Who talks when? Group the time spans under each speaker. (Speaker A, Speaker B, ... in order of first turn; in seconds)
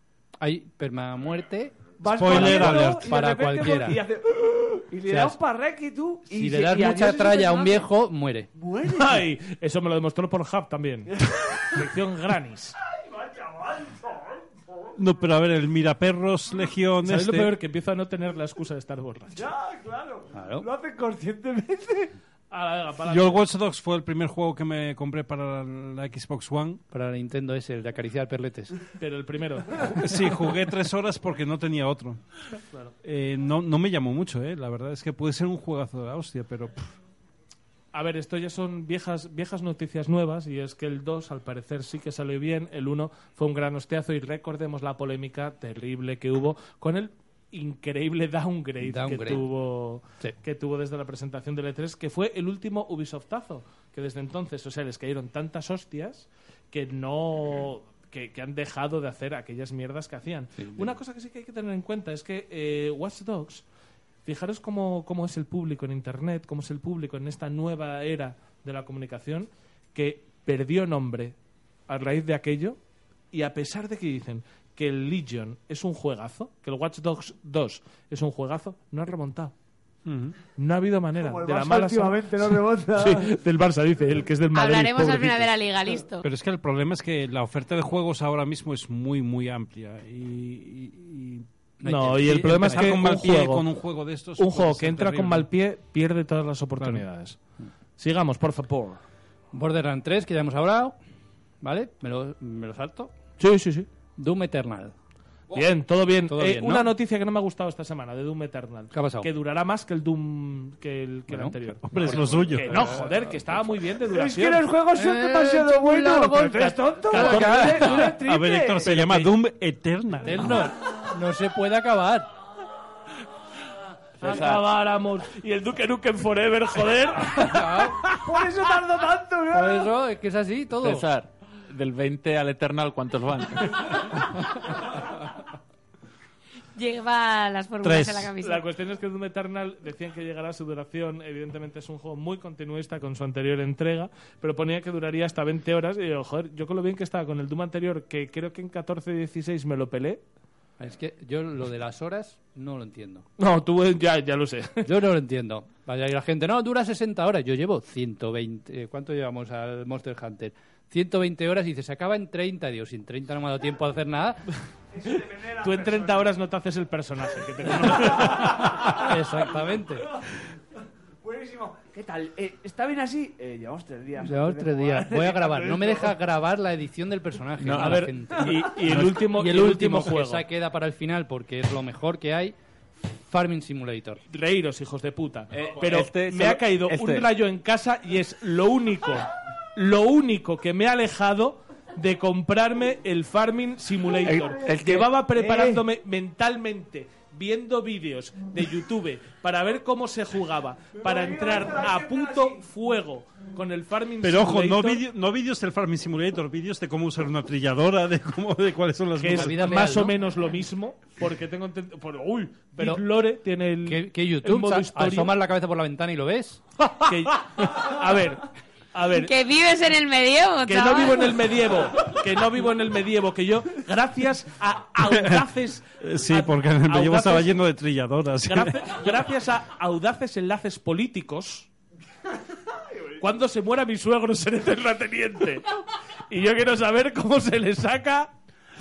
Speaker A: 0.4-4.0, 5.0-5.4, 6.3-8.5, 20.3-20.7, 26.9-28.7, 48.8-49.5, 60.6-60.9, 91.8-93.0, 99.5-101.0, 101.6-103.1, 104.2-104.9, 106.3-106.9, 108.9-109.3, 111.3-113.5, 114.9-118.1, 120.2-122.3, 127.4-128.0, 129.5-131.1, 150.8-153.2, 154.8-164.4, 168.8-170.1, 174.2-182.6, 183.1-184.2, 209.3-210.2, 212.8-213.0, 213.8-216.6
Speaker B: 2.0-7.9, 8.6-9.2, 12.9-14.9, 19.4-22.1, 81.2-83.3, 114.0-118.9, 128.1-129.9, 164.9-166.3, 167.9-169.5, 171.2-176.2, 194.3-194.8, 195.3-195.8, 201.0-202.6
Speaker C: 2.2-3.0, 15.0-17.5, 23.1-26.8, 30.0-32.2, 33.0-36.9, 80.0-80.3, 86.2-91.5, 92.2-95.5, 111.8-112.8, 117.4-120.6, 137.8-138.3, 204.2-209.8, 225.1-225.4, 226.0-229.0
Speaker D: 8.9-12.8, 17.0-19.4, 22.5-23.4, 29.0-29.9, 37.9-63.6, 64.2-71.3, 71.9-72.8, 73.3-79.5, 80.5-85.5, 91.8-93.6, 94.4-97.4, 98.0-99.0, 103.4-103.9, 105.5-114.6, 116.6-118.1, 118.8-119.3, 124.2-128.2, 138.4-150.2, 153.4-154.9, 165.6-169.0, 177.8-180.4, 184.3-205.0, 209.2-215.3, 217.0-219.3, 220.6-227.5, 228.4-231.7, 233.2-235.7, 236.3-238.3
Speaker E: 84.5-86.2, 136.7-138.6, 219.1-221.4
Speaker F: 124.2-124.6, 130.8-134.0, 177.6-178.1, 185.5-187.3, 194.2-195.1